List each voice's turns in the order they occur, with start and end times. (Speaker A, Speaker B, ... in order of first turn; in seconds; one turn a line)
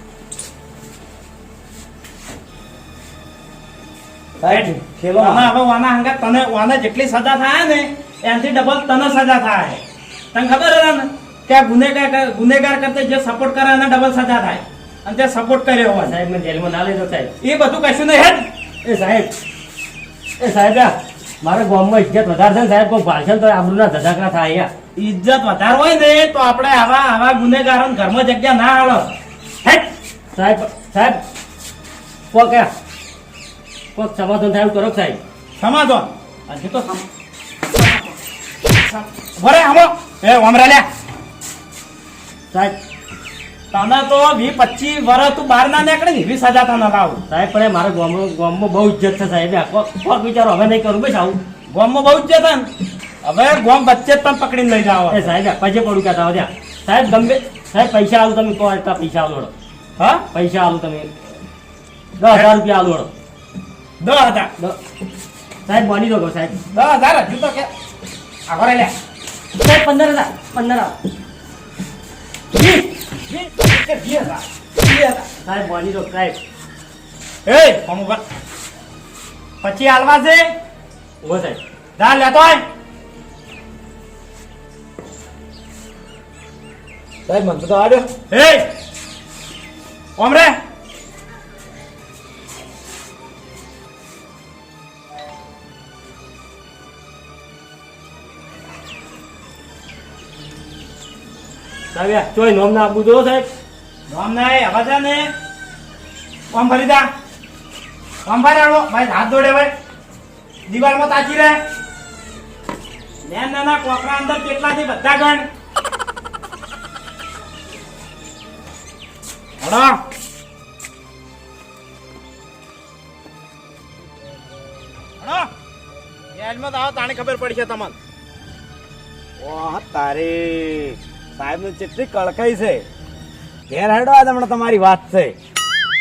Speaker A: 4.4-5.5
Speaker B: 4.5-9.8
Speaker B: 10.3-16.1
Speaker C: 16.0-17.3
Speaker B: 17.4-18.4
Speaker C: 18.8-19.3
Speaker C: 20.4-24.7
Speaker B: 25.0-29.1
Speaker C: 30.3-31.2
Speaker C: 32.3-32.7
Speaker C: 34.0-35.2
Speaker B: 35.6-37.0
Speaker B: 37.8-38.1
Speaker B: 38.8-40.9
Speaker C: 42.5-42.8
Speaker B: 43.7-47.2
Speaker C: 47.3-51.4
Speaker B: 51.7-52.7
Speaker B: 53.2-55.3
Speaker C: 55.1-59.5
Speaker B: 60.0-60.2
Speaker C: 60.3-61.1
Speaker C: 62.2-63.1
Speaker B: 64.0-64.5
Speaker C: 65.7-66.6
Speaker B: 66.7-67.7
Speaker B: 68.5-68.9
Speaker C: 69.5-71.0
Speaker B: 73.3-75.2
Speaker C: 75.4-76.4
Speaker B: 77.5-78.2
Speaker B: 79.6-80.5
Speaker C: 81.2-81.6
Speaker B: 82.0-82.6
Speaker A: 87.3-88.1
Speaker B: 88.3-88.7
Speaker B: 90.2-90.6
Speaker C: 101.9-103.5
Speaker B: 104.1-105.3
Speaker B: 106.5-107.1
Speaker B: 108.2-109.7
Speaker B: 110.7-111.6
Speaker B: 113.2-115.5
Speaker B: 119.6-120.0
Speaker B: 125.2-125.5
Speaker B: 126.3-128.0
Speaker A: 129.4-132.8
Speaker A: 133.7-135.3